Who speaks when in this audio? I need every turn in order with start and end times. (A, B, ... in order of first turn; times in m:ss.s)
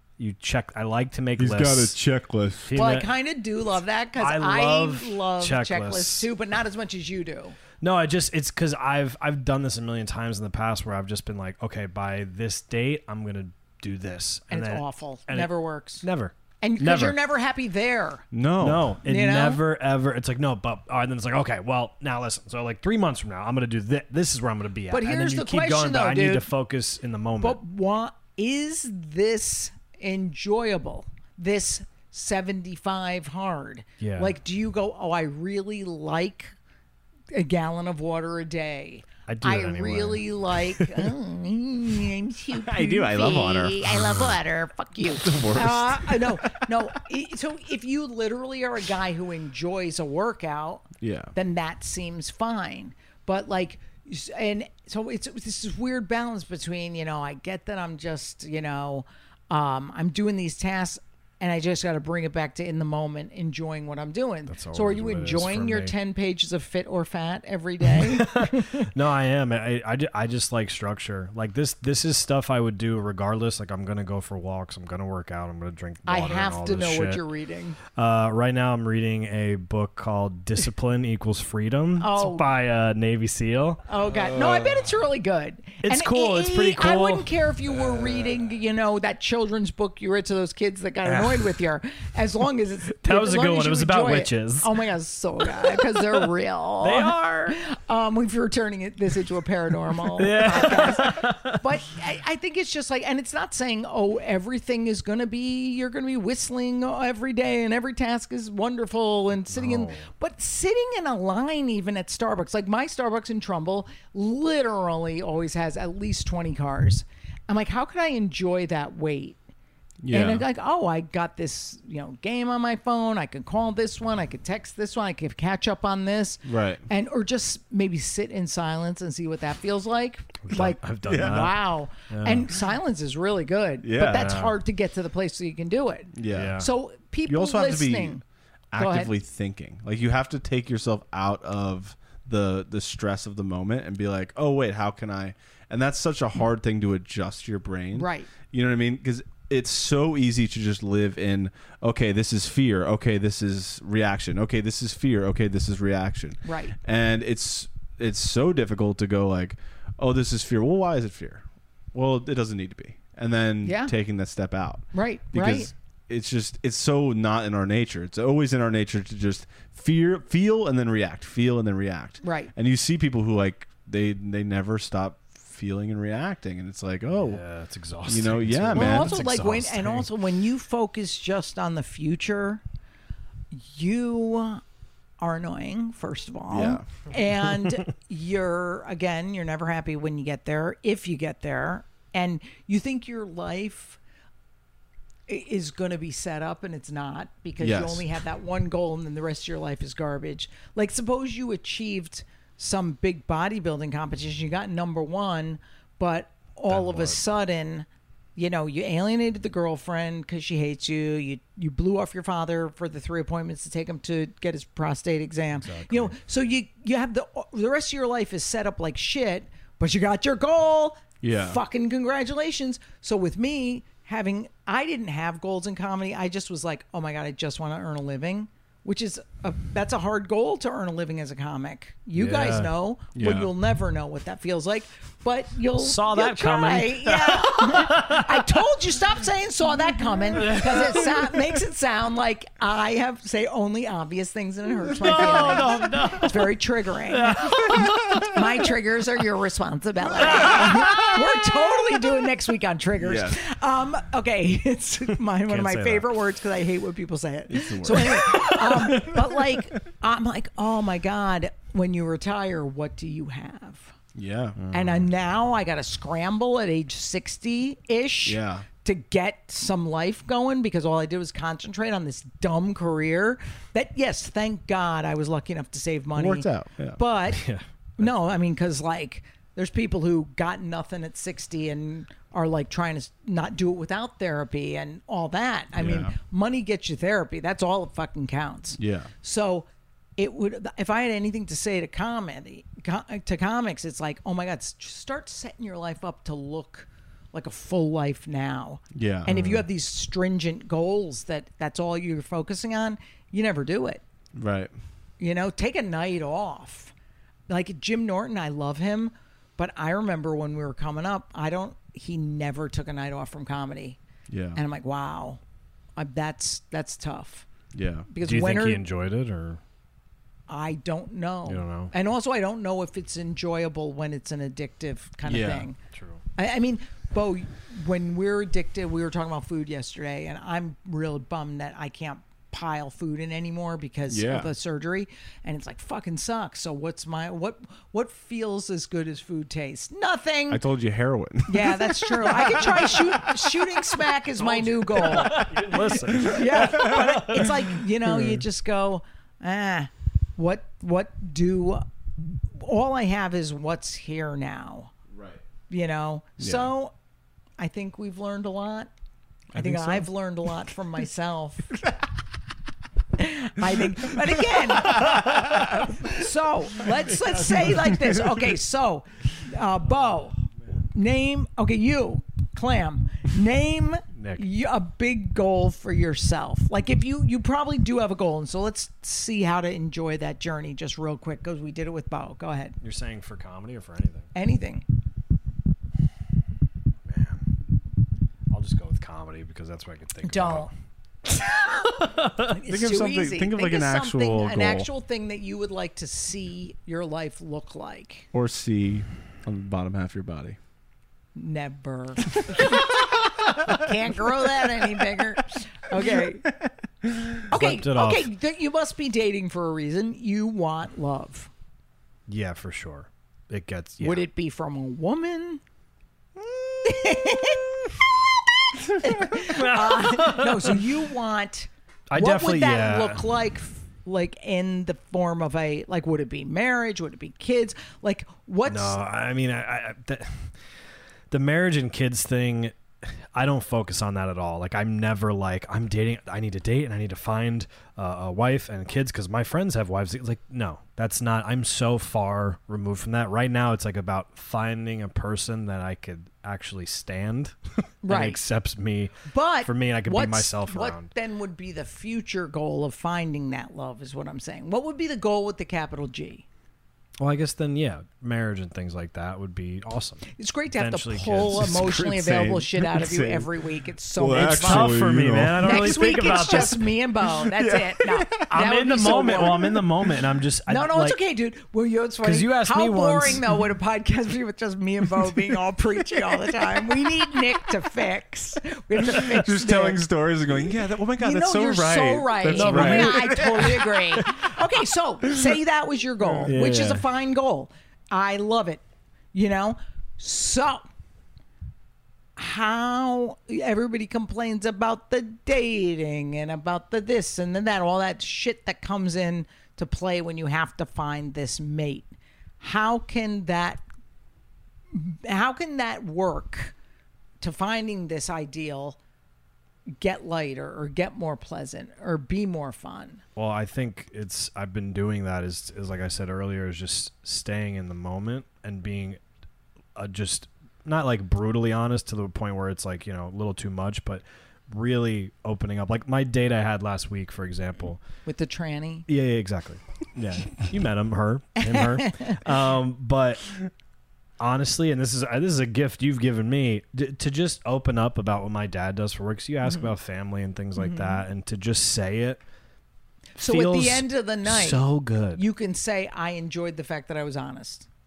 0:00.2-0:02.0 A
0:01.4-0:02.8 B
0:02.6-0:03.1 A
0:02.8-0:07.6 C
0:04.2-0:06.3 A
0:07.8-0:17.2 A
0:14.5-0:16.0 C
0:16.6-0:18.2 C
0:18.3-0:18.9 B
0:18.6-0:27.6 A
0:19.0-0:19.6 C
0:24.9-0:26.5 C
0:27.4-0:36.5 C
0:34.0-0:34.3 A
0:37.3-1:08.9 C
0:39.3-0:41.1 A
0:42.6-0:44.4 B
0:45.2-0:46.9 B
0:51.0-0:51.3 B
1:04.5-1:05.9 A
1:08.0-1:17.2 A
1:16.0-1:17.8 C
1:17.9-1:23.8 A
1:22.0-1:22.5 C
1:23.9-1:59.4 C
1:24.1-1:24.9 B
1:25.8-1:27.3 A
1:31.0-1:31.5 A
1:33.0-1:34.7 A
1:35.5-1:36.2 A
1:36.8-1:37.6 A
1:40.2-1:41.6 A
1:49.5-1:50.1 A
2:00.0-2:00.4 B
2:00.1-2:18.2 C
2:06.4-2:06.8 B
2:10.5-2:12.5 A
2:11.1-2:11.5 B
2:13.8-2:14.4 B
2:14.1-2:14.5 A
2:16.1-2:16.6 B
2:16.3-2:16.7 A
2:17.3-2:18.2 B
2:18.7-2:57.4 B
2:18.8-2:19.1 C
2:27.9-2:28.3 C
2:36.4-2:36.7 C
2:43.6-2:43.9 C
2:44.9-2:45.7 C
2:52.2-2:52.5 C
2:57.1-3:00.1 A
2:58.0-2:59.2 B
2:58.7-3:02.6 C
3:03.5-3:04.6 C
3:05.2-3:14.0 C
3:06.5-3:06.8 B
3:15.3-4:24.0 C
3:17.6-3:18.1 B
3:26.7-3:27.2 A
3:35.6-3:36.1 A
3:41.2-3:41.6 B
3:52.1-3:52.7 A
3:53.1-3:53.5 B
3:55.8-3:58.4 A
4:00.4-4:01.2 A
4:05.0-4:06.5 A
4:07.1-4:08.3 A
4:10.4-4:11.2 A
4:13.0-4:13.4 B
4:15.5-4:16.0 A
4:17.5-4:18.4 B
4:18.1-4:19.0 A
4:24.1-4:24.6 B
4:24.6-4:25.0 A
4:24.7-4:37.4 C
4:28.2-4:28.6 B
4:36.2-4:37.0 B
4:37.3-4:37.6 A
4:38.0-5:04.0 C
4:45.7-4:46.1 B
4:48.8-4:49.1 B
4:58.9-4:59.6 B
5:04.3-5:04.7 B
5:05.2-5:06.9 C
5:07.5-5:14.0 C
5:14.3-5:14.6 B
5:14.5-5:15.4 C
5:16.0-5:17.4 C
5:17.7-5:18.1 B
5:18.1-5:18.8 C
5:18.2-5:19.6 A
5:20.5-5:25.8 C
5:21.4-5:21.9 A
5:25.2-5:25.7 B
5:25.9-5:26.2 A
5:26.4-5:40.6 C
5:34.1-5:34.5 B
5:40.5-5:43.1 B
5:41.5-5:45.6 C
5:44.4-5:47.7 A
5:46.1-5:54.9 C
5:46.2-5:47.0 B
5:55.1-5:55.4 B
5:55.7-5:56.9 C
5:56.4-5:56.7 B
5:57.6-5:58.9 C
5:59.5-6:01.7 C
5:59.5-6:00.0 A
6:03.2-6:05.2 C
6:04.9-6:05.9 B
6:05.0-6:05.8 A
6:06.1-6:10.4 C
6:07.1-6:07.9 A
6:10.9-6:22.8 C
6:14.2-6:14.4 A
6:22.8-6:24.3 A
6:24.3-6:24.8 C
6:27.1-6:27.4 A
6:28.5-6:30.7 A
6:30.2-6:30.7 C
6:31.3-6:32.5 A
6:32.5-6:38.3 C
6:32.6-6:34.9 B
6:38.3-6:40.6 B
6:41.4-6:46.4 C
6:46.4-6:47.4 B
6:47.5-6:51.5 C
6:47.5-6:48.3 A
6:52.3-6:54.2 A
6:54.0-6:55.6 C
6:56.8-6:57.9 C
6:58.9-7:09.0 C
6:59.0-7:00.8 A
7:02.1-7:03.2 A
7:08.6-7:10.6 A
7:11.3-7:29.1 A
7:28.0-7:28.4 C
7:29.3-7:36.4 C
7:29.6-7:31.1 A
7:37.2-7:42.6 A
7:40.4-7:45.0 C
7:42.6-7:43.5 B
7:44.2-7:45.8 B
7:44.3-7:46.8 A
7:45.6-7:49.8 C
7:47.4-7:48.5 B
7:48.5-7:51.2 A
7:50.7-8:00.0 C
7:52.2-7:53.4 A
7:59.1-8:04.0 B
8:01.2-8:08.8 C
8:02.5-8:03.6 A
8:06.4-8:07.0 A
8:09.3-8:10.9 C
8:12.4-8:23.8 C
8:24.9-8:26.7 C
8:27.4-8:29.0 C
8:30.0-8:33.2 C
8:33.4-8:39.2 A
8:39.9-8:48.0 A
8:48.2-8:49.0 C
8:49.1-8:53.7 A
8:51.6-8:52.4 C
8:54.4-9:02.4 A
8:59.6-8:59.9 C
9:00.8-9:01.2 C
9:03.4-9:05.4 A
9:03.4-9:07.9 C